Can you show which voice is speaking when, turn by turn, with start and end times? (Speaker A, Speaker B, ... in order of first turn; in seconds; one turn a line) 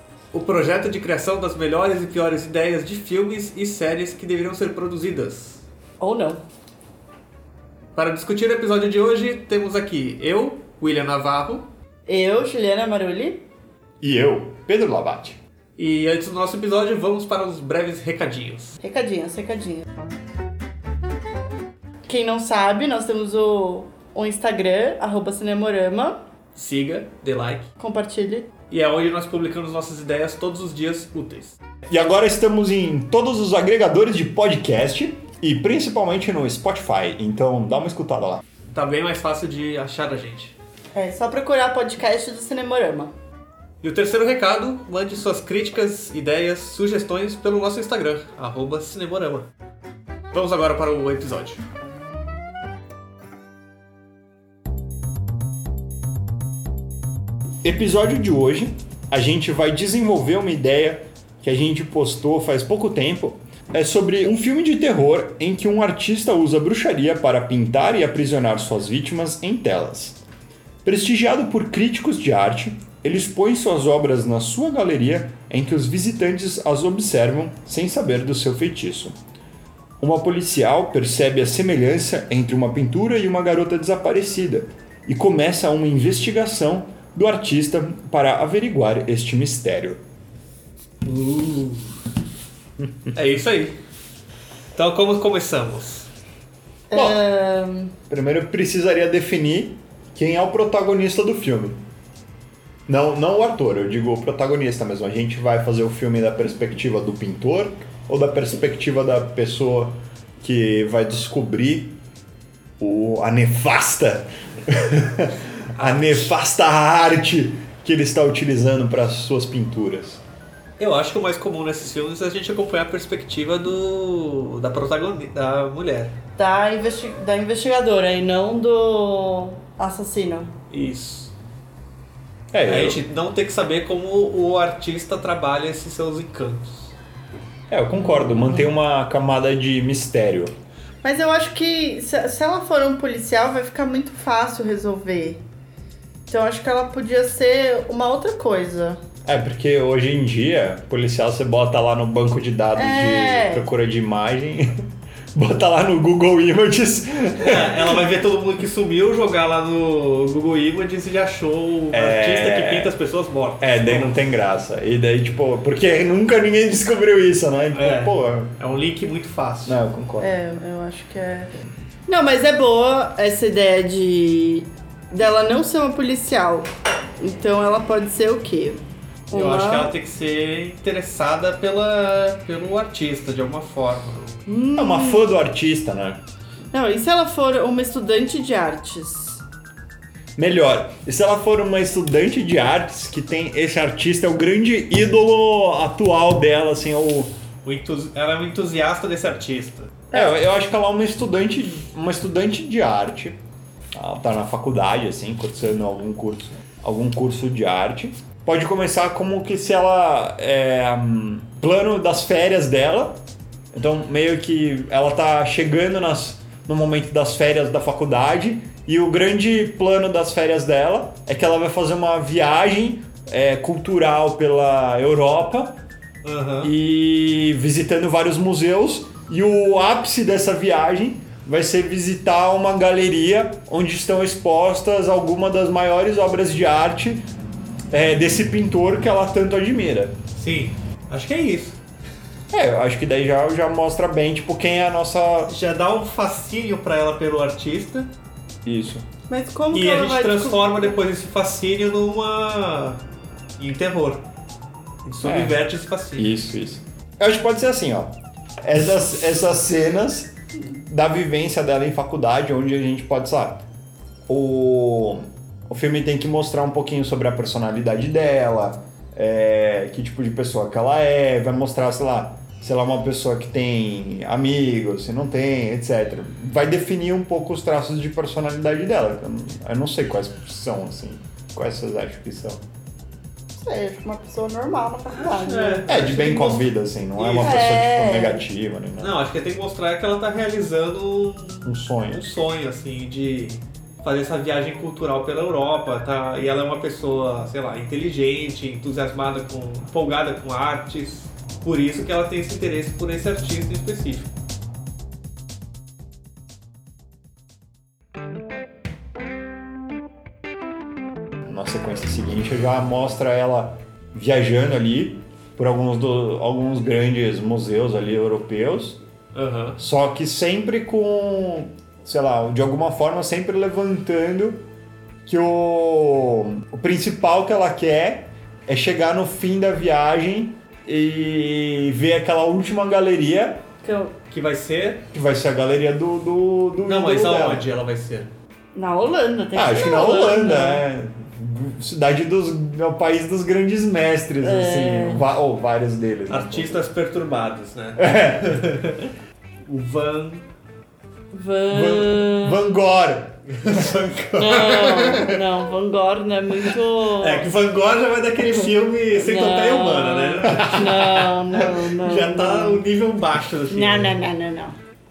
Speaker A: 0.3-5.6
Speaker B: 6.0-6.4
Speaker A: 8.0-11.7
Speaker B: 12.1-13.4
Speaker C: 14.0-15.4
Speaker A: 15.8-18.8
Speaker B: 18.8-20.0
Speaker B: 22.1-26.2
Speaker A: 26.6-27.7
Speaker B: 27.8-28.5
Speaker A: 28.7-31.6
Speaker C: 31.9-38.4
Speaker A: 38.7-40.5
Speaker B: 41.0-43.1
Speaker A: 43.8-49.5
Speaker A: 50.3-51.6
Speaker C: 57.6-70.2
Speaker C: 70.8-79.2
Speaker C: 80.0-90.0
Speaker A: 91.0-92.0
Speaker A: 93.1-93.8
Speaker A: 94.8-96.1
Speaker B: 96.9-97.9
Speaker C: 96.9-97.2
Speaker C: 98.1-101.8
Speaker C: 102.9-112.0
Speaker C: 112.8-120.2
Speaker A: 120.8-126.2
Speaker B: 126.4-130.5
Speaker A: 130.7-131.3
Speaker C: 132.5-133.0
Speaker A: 132.7-136.9
Speaker C: 137.7-140.5
Speaker B: 138.1-138.5
Speaker B: 141.0-145.4
Speaker B: 146.3-149.0
Speaker C: 149.2-158.1
Speaker B: 152.8-153.7
Speaker A: 157.4-164.1
Speaker C: 161.9-162.9
Speaker C: 163.6-168.5
Speaker A: 167.8-169.8
Speaker C: 169.7-170.3
Speaker B: 170.2-171.5
Speaker B: 172.1-179.9
Speaker A: 179.3-184.4
Speaker B: 184.5-185.3
Speaker C: 184.8-186.2
Speaker B: 186.7-189.4
Speaker C: 190.4-197.3
Speaker A: 197.6-200.1
Speaker C: 200.1-203.4
Speaker C: 203.9-213.2
Speaker C: 213.7-225.8
Speaker A: 226.2-226.7
Speaker C: 226.6-237.2
Speaker C: 237.9-240.2
Speaker A: 240.3-241.8
Speaker C: 242.5-245.5
Speaker A: 245.5-248.1
Speaker C: 248.7-249.1
Speaker B: 249.3-251.0
Speaker A: 249.7-253.0
Speaker A: 253.6-254.2
Speaker A: 255.1-256.3
Speaker C: 255.2-255.6
Speaker C: 256.2-263.6
Speaker C: 264.3-282.6
Speaker B: 283.6-285.8
Speaker A: 285.1-287.8
Speaker C: 285.9-289.2
Speaker B: 287.4-288.4
Speaker A: 289.0-304.3
Speaker C: 291.6-292.3
Speaker C: 311.5-319.0
Speaker A: 319.3-319.8
Speaker C: 319.8-324.6
Speaker C: 325.3-333.6
Speaker B: 333.8-334.1
Speaker A: 334.3-335.1
Speaker C: 335.1-337.6
Speaker A: 336.9-338.3
Speaker B: 338.7-340.9
Speaker C: 339.5-346.9
Speaker B: 344.4-345.2
Speaker A: 346.3-349.1
Speaker C: 348.0-348.6
Speaker A: 349.6-350.4
Speaker B: 351.3-352.6
Speaker C: 351.7-353.8
Speaker A: 353.5-355.3
Speaker B: 354.4-357.5
Speaker A: 357.1-364.2
Speaker B: 358.4-362.8
Speaker C: 360.6-361.0
Speaker B: 363.7-364.8